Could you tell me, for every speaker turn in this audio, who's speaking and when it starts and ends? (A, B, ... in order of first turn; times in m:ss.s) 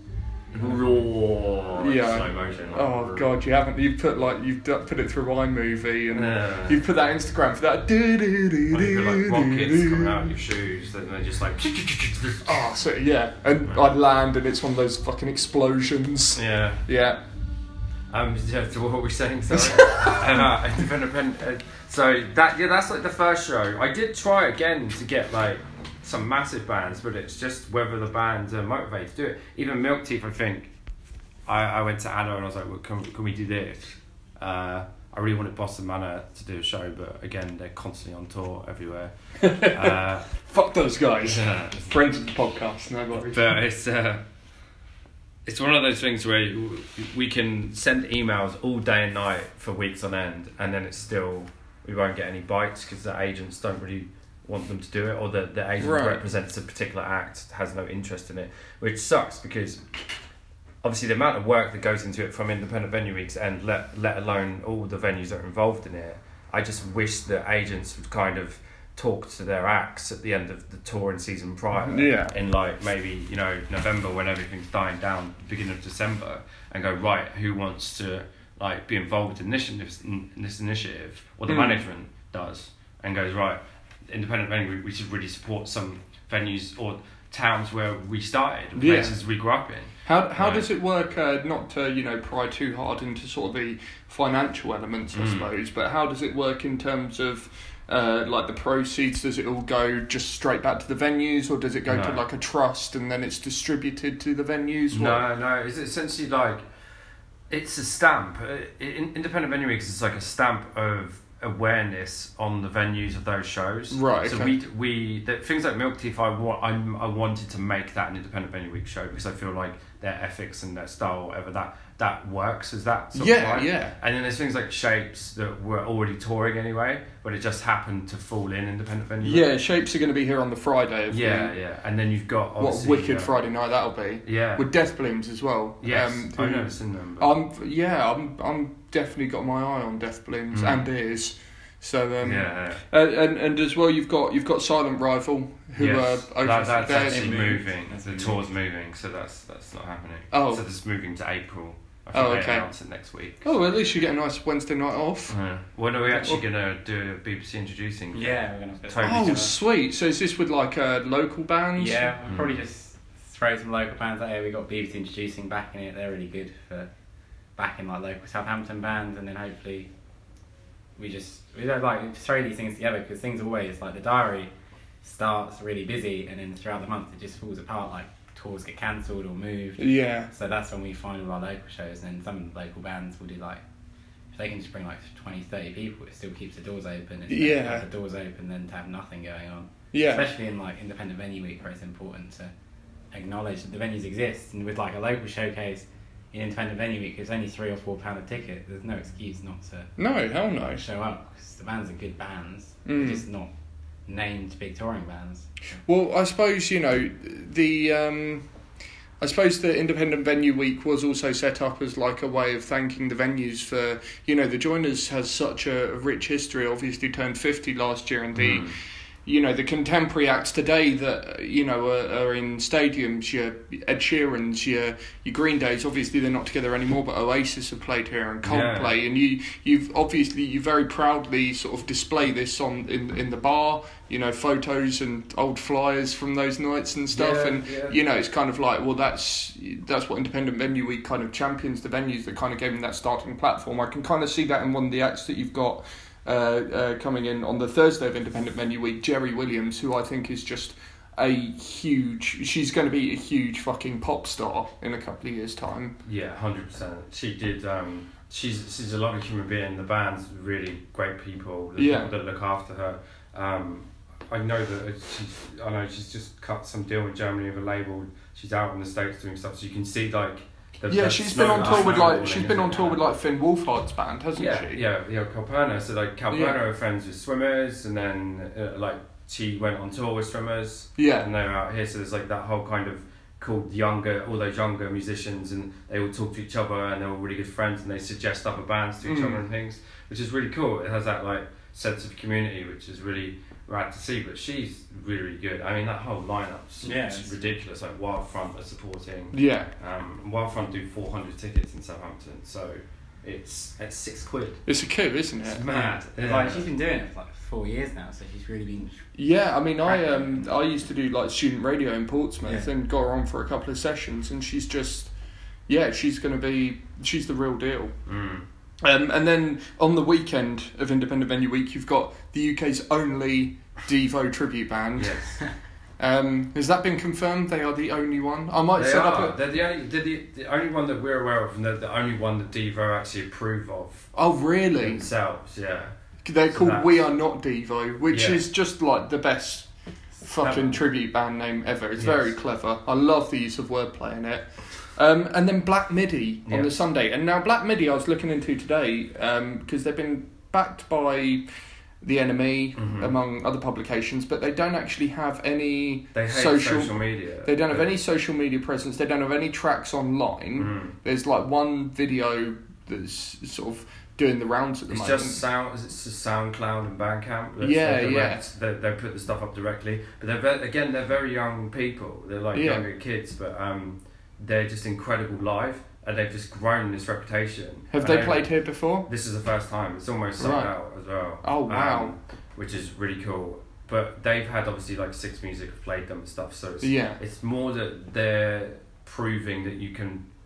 0:00.5-0:03.3 A
0:00.6-0:01.0 B
0:01.8-0:10.3 C
0:06.1-0:06.9 A
0:08.7-0:12.7 A
0:12.4-0:17.2 C
0:16.3-0:16.8 A
0:18.1-0:30.7 A
0:19.5-0:20.5 C
0:31.5-0:40.4 A
0:39.4-0:43.6 C
0:41.2-0:42.0 A
0:43.1-0:44.2 A
0:45.5-0:59.9 A
0:55.8-0:56.2 C
1:00.8-1:30.7 A
1:11.7-1:12.3 C
1:21.5-1:21.8 C
1:28.8-1:29.2 C
1:30.0-1:45.2 C
1:35.1-1:35.5 A
1:41.9-1:42.2 A
1:44.9-1:46.7 A
1:47.5-2:09.5 A
1:53.9-1:54.6 C
2:03.1-2:04.0 C
2:09.2-2:11.5 C
2:11.1-2:13.3 A
2:12.6-2:27.6 C
2:14.3-2:14.7 A
2:15.8-2:17.3 A
2:20.5-2:20.9 A
2:22.2-2:22.8 A
2:25.8-2:33.6 A
2:26.9-2:28.4 B
2:30.3-2:30.6 C
2:32.1-2:32.7 C
2:33.4-2:35.4 C
2:35.3-2:38.4 A
2:36.1-2:36.4 C
2:38.1-2:39.5 B
2:38.9-2:39.5 A
2:39.0-2:42.1 C
2:41.8-2:46.9 B
2:42.3-2:42.6 A
2:47.6-2:49.9 B
2:51.0-3:03.6 B
2:59.8-3:00.3 C
3:04.3-3:12.5 B
3:07.3-3:07.8 C
3:09.9-3:10.3 C
3:13.1-3:19.9 B
3:20.0-3:20.9 C
3:20.8-3:23.5 B
3:22.9-3:23.2 C
3:24.1-3:25.8 B
3:25.8-3:28.5 C
3:29.2-4:16.0 C
3:38.3-3:38.8 A
3:48.4-3:49.0 A
3:57.1-3:58.0 A
4:16.0-4:33.0 A
4:21.8-4:22.1 C
4:30.9-4:34.8 C
4:31.6-4:32.8 B
4:34.4-5:04.7 A
4:36.3-4:36.6 C
4:41.0-4:41.3 C
4:49.0-4:49.4 C
4:56.8-4:57.4 B
4:59.3-4:59.7 C
5:04.7-5:05.9 C
5:05.4-5:06.7 A
5:06.2-5:09.0 B
5:09.2-5:15.1 C
5:09.8-5:10.6 B
5:12.4-5:12.7 B
5:15.7-5:17.9 C
5:18.1-5:18.4 A
5:18.8-5:25.4 C
5:25.0-5:25.4 A
5:26.0-5:29.4 C
5:28.8-5:34.2 A
5:34.2-5:35.1 C
5:34.8-5:35.9 A
5:36.2-5:51.5 C
5:36.5-5:36.9 A
5:38.1-5:38.4 A
5:40.4-5:40.8 A
5:42.0-5:42.4 A
5:46.5-5:46.8 A
5:52.0-6:05.4 C
5:52.8-5:53.1 A
5:56.1-5:57.9 A
6:00.6-6:01.0 A
6:04.9-6:30.2 A
6:07.6-6:08.4 C
6:12.5-6:12.8 C
6:17.9-6:19.1 C
6:20.4-6:20.7 C
6:21.4-6:22.1 C
6:26.8-6:27.2 C